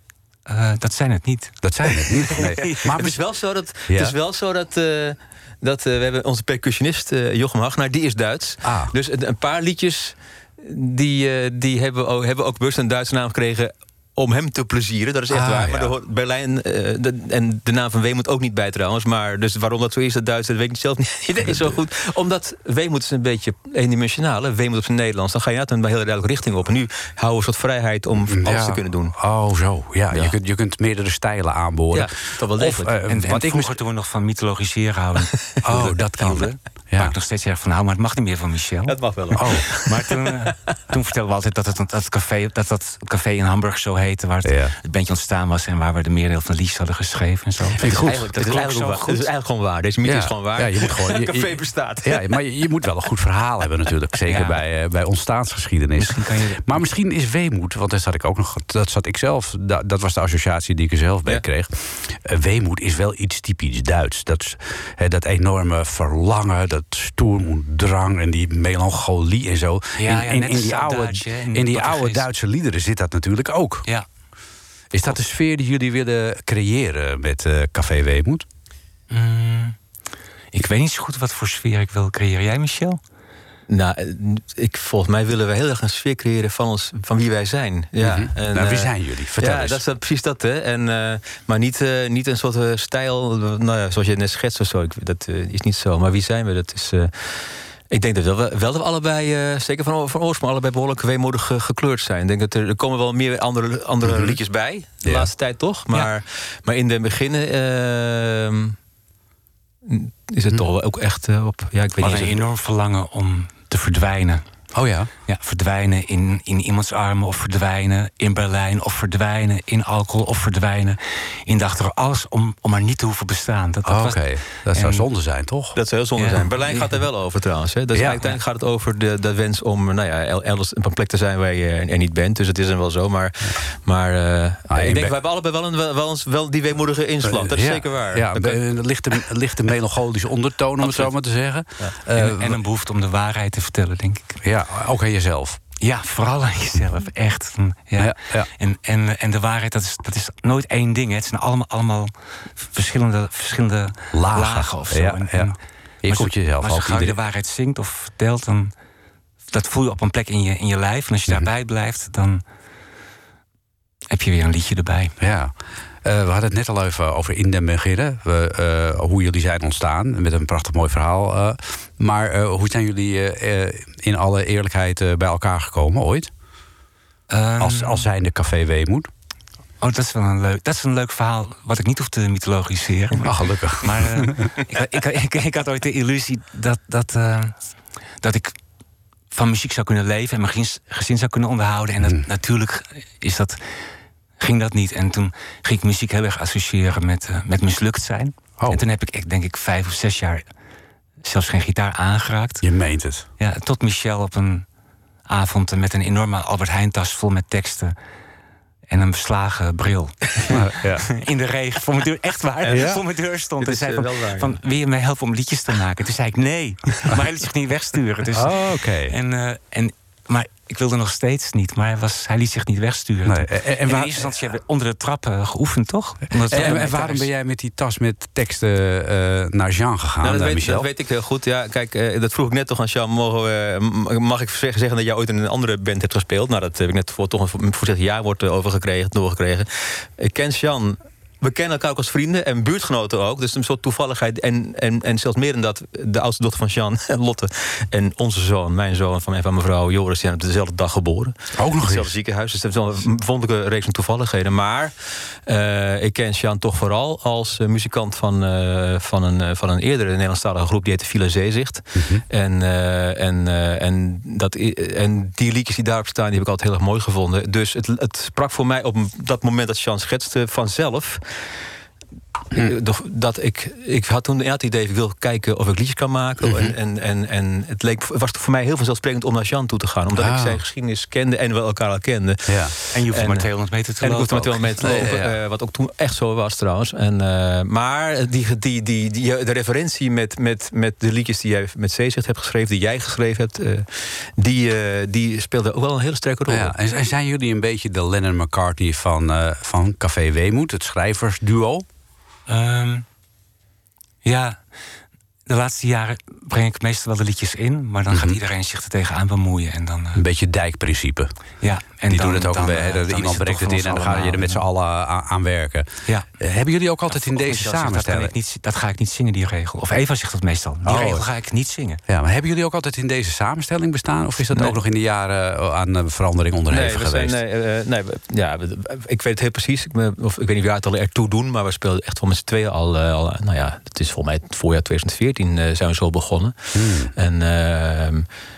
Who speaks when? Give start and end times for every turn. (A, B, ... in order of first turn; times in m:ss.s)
0:00.5-0:03.0 A
0:01.6-0:03.2 B
0:02.8-0:29.2 C
0:03.8-0:04.2 B
0:08.6-0:08.9 B
0:15.3-0:15.9 B
0:28.3-0:33.8 B
0:31.9-0:33.0 C
0:33.1-0:49.3 A
0:35.6-0:37.2 B
0:38.9-0:40.0 C
0:39.4-0:39.7 B
0:44.4-0:44.8 B
0:47.8-0:52.4 C
0:47.8-0:48.3 B
0:50.0-1:13.9 B
0:54.3-0:54.6 A
0:56.0-0:56.8 A
1:10.0-1:12.2 A
1:14.9-1:18.5 B
1:19.1-1:19.8 A
1:20.5-1:23.0 A
1:23.7-1:48.8 C
1:28.0-1:29.8 B
1:44.0-1:44.4 B
1:49.8-1:52.4 C
1:52.0-1:54.4 A
1:54.7-1:55.1 B
1:55.3-2:05.1 A
2:03.9-2:05.8 B
2:05.8-2:18.6 C
2:06.2-2:07.0 A
2:07.9-2:08.2 B
2:14.7-2:15.2 B
2:17.2-2:22.6 B
2:22.1-2:24.4 A
2:24.4-2:25.6 B
2:25.8-2:38.7 A
2:28.0-2:28.5 B
2:34.1-2:37.2 B
2:39.5-2:42.4 A
2:44.1-2:45.2 A
2:45.2-2:56.3 B
2:57.3-2:58.1 A
2:57.6-2:59.1 B
2:59.8-3:07.6 A
3:03.2-3:04.5 B
3:08.2-3:08.6 A
3:09.3-3:13.6 A
3:14.4-3:20.5 A
3:21.2-3:22.6 A
3:22.6-3:23.3 B
3:23.4-3:24.7 A
3:25.3-3:28.0 A
3:28.9-3:47.3 A
3:30.5-3:31.1 B
3:32.7-3:33.0 B
3:33.6-3:34.6 C
3:38.3-3:39.2 B
3:43.2-3:44.3 B
3:46.4-3:50.9 B
3:46.5-3:46.9 C
3:50.2-4:14.9 C
4:11.6-4:12.1 B
4:15.5-4:31.2 C
4:22.0-4:22.2 B
4:32.5-4:56.7 C
4:36.4-4:36.7 B
4:40.2-4:40.6 B
4:42.5-4:42.7 B
4:42.9-4:45.1 A
4:44.8-4:45.3 B
4:56.5-5:01.9 B
5:02.5-5:03.0 A
5:04.2-5:04.7 A
5:05.5-5:10.2 A
5:08.1-5:08.4 B
5:10.2-5:11.4 B
5:11.6-5:14.6 A
5:12.1-5:18.3 B
5:17.1-5:22.0 A
5:20.8-5:21.3 B
5:22.1-5:27.4 B
5:26.7-5:38.3 C
5:36.8-5:37.1 B